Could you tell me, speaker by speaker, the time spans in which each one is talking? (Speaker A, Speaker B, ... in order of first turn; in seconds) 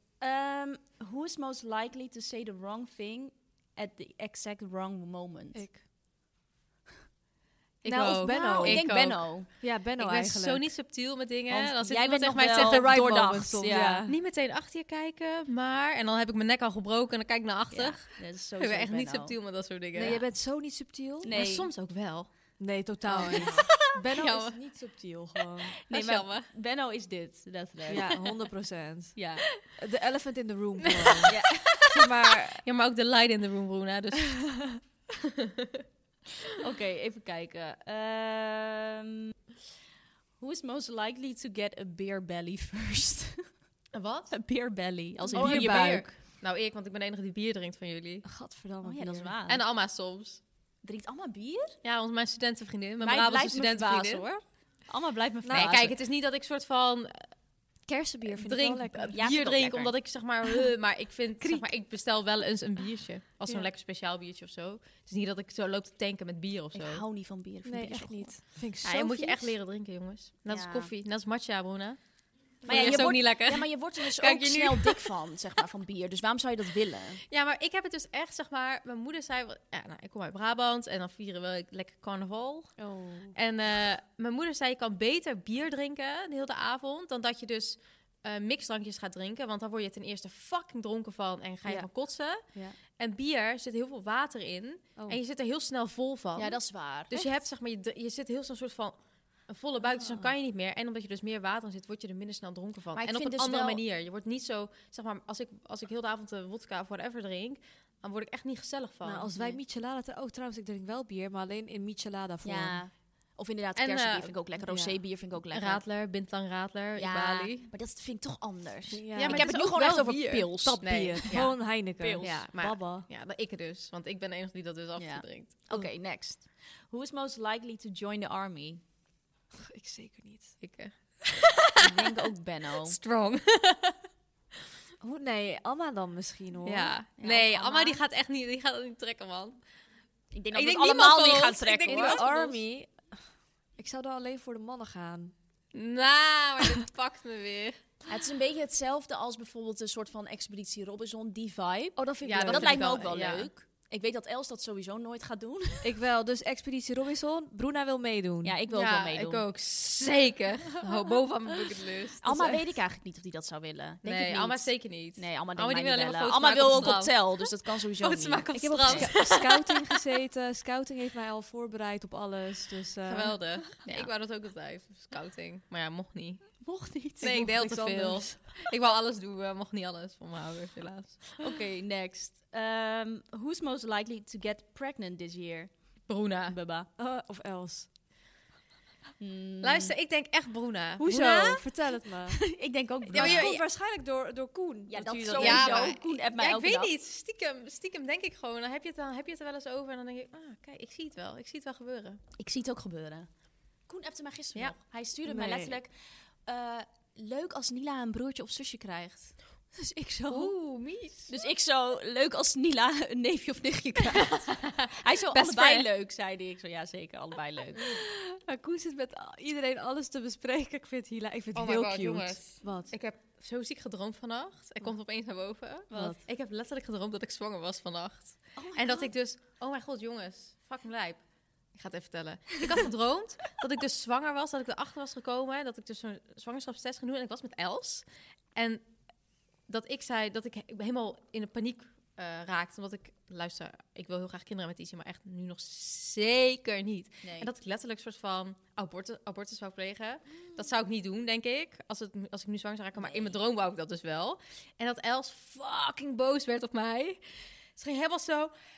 Speaker A: 0.2-5.6, 8.2-9.5, 11.5-14.1, 17.7-19.4, 20.0-20.2, 21.2-21.7, 23.2-23.6, 25.9-28.3, 29.1-29.5, 31.3-31.9, 36.6-39.3, 40.4-43.6, 44.3-46.1, 48.8-49.6, 50.8-51.8, 53.0-56.0, 59.1-60.0, 66.7-68.4, 70.5-70.9, 72.6-77.2, 96.3-97.2, 102.9-103.8, 112.4-115.8, 117.0-122.4, 125.0-128.8, 131.8-133.0, 137.2-138.0, 140.3-142.2, 148.1-155.9, 158.4-159.4, 162.2-169.2, 176.6-177.4, 181.4-186.9, 189.2-189.9, 191.0-193.5, 194.9-196.9, 202.3-203.3, 203.9-205.9, 206.4-209.4, 211.3-217.9, 228.6-229.1, 247.2-247.5, 252.9-253.4
Speaker B: 5.5-5.8, 7.8-10.7, 12.5-14.2, 19.9-21.3, 22.6-25.8, 27.9-32.6, 45.3-46.2, 48.2-49.3, 55.4-55.8, 57.8-59.2, 61.4-61.7, 67.6-69.5, 72.6-73.1, 82.8-83.3, 91.6-92.8, 99.9-100.3, 109.0-112.8, 114.6-115.0, 118.9-123.1, 129.5-130.6, 135.0-136.9, 141.9-145.3, 151.9-153.0, 155.8-158.5, 162.2-162.6, 168.5-173.7, 177.2-178.4, 187.0-187.9, 191.0-192.4, 193.1-195.9, 205.2-205.8, 209.7-210.5, 217.8-222.9, 225.9-226.2
Speaker C: 7.8-20.2, 21.3-24.8, 25.9-26.5, 31.2-31.7, 32.6-34.7, 35.3-35.8, 43.9-44.3, 45.3-48.2, 49.5-50.4, 51.8-54.3, 55.5-57.3, 58.2-67.0, 68.8-75.1, 77.3-109.3, 113.8-114.3, 115.5-117.7, 119.1-125.5, 130.6-132.1, 132.8-134.0, 136.6-139.6, 140.5-142.6, 145.7-147.8, 152.2-153.5, 158.7-162.2, 164.0-169.8, 173.1-176.6, 177.2-181.4, 186.1-186.6, 189.6-191.1, 193.1-193.6, 195.3-202.2, 210.3-211.3, 214.6-215.9, 221.5-231.2, 231.7-238.9, 239.6-258.5